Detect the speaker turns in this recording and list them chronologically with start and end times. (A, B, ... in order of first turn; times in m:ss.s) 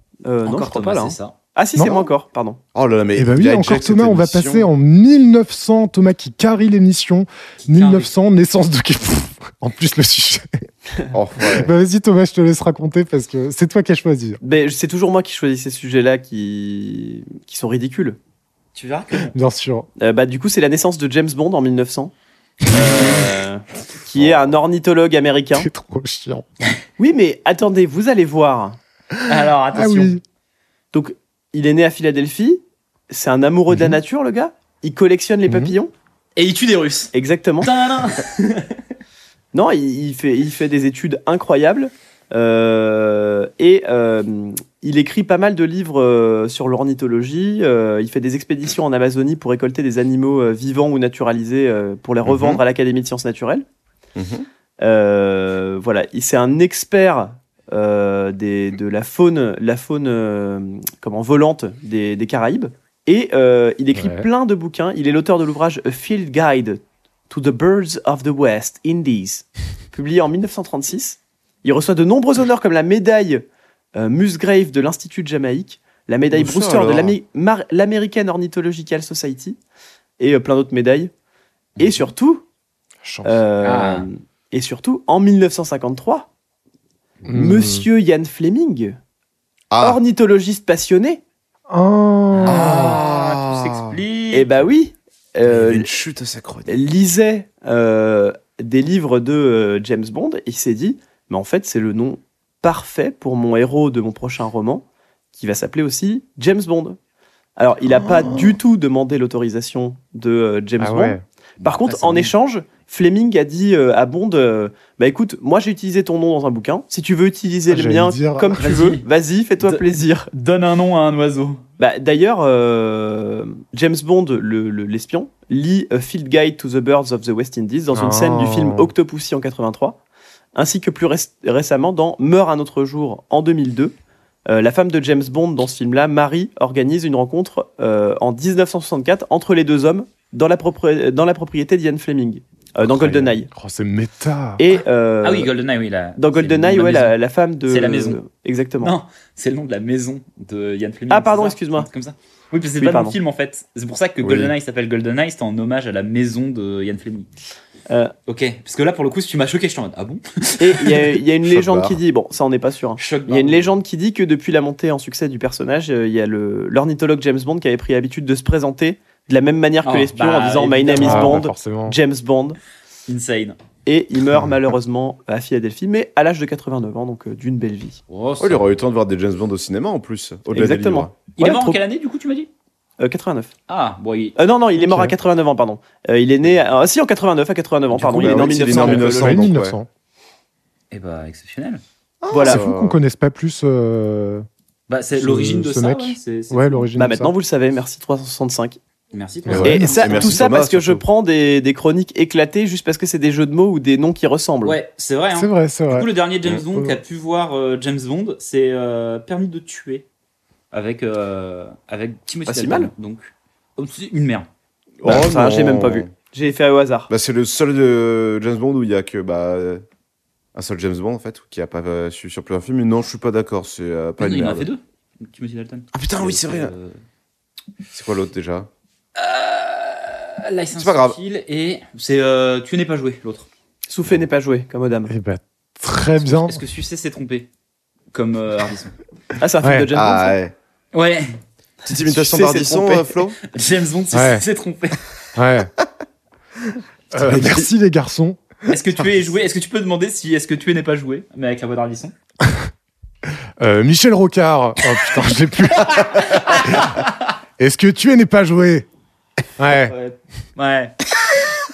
0:00.2-0:02.6 A
0:00.4-0:01.3 B
0:01.8-0:02.0 C
0:01.8-0:02.1 D
0:02.7-0:04.7 D
0:03.1-0:10.5 C
0:07.7-0:08.1 B
0:11.1-0:11.7 D
0:11.4-0:14.4 C
0:14.4-0:18.2 A
0:18.7-0:19.3 B
0:19.3-0:19.9 C
0:20.0-0:22.1 A
0:22.7-0:25.7 A
0:24.2-0:24.4 D
0:25.5-0:26.7 C
0:27.0-0:28.8 A
0:29.1-0:30.2 C
0:29.2-0:30.1 B
0:30.9-0:35.9 A
0:35.5-0:35.7 C
0:36.4-0:38.8 B
0:37.1-0:37.7 A
0:39.5-0:53.6 A
0:52.2-0:52.6 D
0:54.2-0:54.5 D
0:54.8-1:19.6 A
1:03.9-1:04.3 C
1:16.3-1:17.2 D
1:20.2-1:21.1 A
1:21.8-1:22.1 B
1:21.8-1:22.4 A
1:23.0-1:23.8 C
1:23.2-1:26.3 A
1:23.6-1:24.1 B
1:27.2-1:27.9 C
1:27.3-1:29.0 A
1:29.7-1:30.0 D
1:29.8-1:31.2 A
1:31.7-1:33.0 C
1:32.3-1:34.5 B
1:32.5-1:34.0 D
1:34.3-1:35.9 A
1:35.7-1:36.7 D
1:36.6-1:47.0 A
1:47.6-2:00.3 A
1:50.8-1:51.2 C
1:51.6-1:52.3 B
1:57.7-1:58.6 C
1:58.6-1:59.0 B
1:59.6-2:01.6 B
2:01.8-2:10.0 A
2:07.9-2:08.9 C
2:10.5-2:13.9 A
2:14.4-2:23.5 A
2:22.8-2:24.6 C
2:24.6-2:25.5 A
2:25.2-2:28.2 B
2:26.2-2:28.9 A
2:28.8-2:37.3 B
2:31.1-2:31.9 A
2:32.8-2:33.2 A
2:34.2-2:34.5 D
2:38.3-2:41.2 B
2:40.6-2:52.6 A
2:41.4-2:42.0 D
2:43.0-2:43.8 B
2:49.8-2:51.4 B
2:51.0-2:52.0 C
2:53.1-2:53.6 B
2:53.8-2:58.0 A
2:58.1-2:58.7 B
2:58.4-3:01.1 D
3:00.5-3:01.8 A
3:01.4-3:02.5 B
3:03.0-3:03.5 A
3:03.7-3:04.4 B
3:04.4-3:09.5 A
3:04.8-3:05.1 C
3:08.0-3:09.8 D
3:08.4-3:09.9 C
3:10.9-3:11.8 B
3:12.2-3:13.0 D
3:12.3-3:12.6 A
3:12.4-3:14.4 C
3:14.9-3:16.9 B
3:15.1-3:17.3 C
3:17.0-3:18.8 A
3:19.1-3:20.2 B
3:19.5-3:20.4 C
3:19.5-3:21.0 D
3:19.6-3:24.8 A
3:24.6-3:30.0 B
3:25.3-3:26.1 C
3:30.7-3:34.5 B
3:32.4-3:32.9 A
3:35.0-3:36.1 D
3:35.0-3:37.1 A
3:37.1-3:39.8 D
3:40.5-3:44.7 D
3:44.2-3:47.0 B
3:45.9-3:46.7 D
3:47.9-3:48.7 D
3:49.2-3:53.5 B
3:50.8-3:51.2 D
3:53.9-3:55.1 A
3:55.1-3:56.6 C
3:56.2-3:57.5 B
3:58.1-3:58.9 B
3:59.4-4:00.4 A
3:59.6-3:59.9 C
3:59.9-4:00.5 D
4:00.9-4:01.4 B
4:01.8-4:03.2 A
4:01.9-4:03.4 D
4:03.5-4:05.1 B
4:04.1-4:04.4 C
4:05.4-4:05.7 C
4:07.1-4:08.4 C
4:07.2-4:07.7 D
4:08.7-4:12.1 B
4:13.6-4:17.0 C
4:15.9-4:17.1 B
4:17.6-4:18.9 C
4:19.6-4:19.9 C
4:19.8-4:21.0 B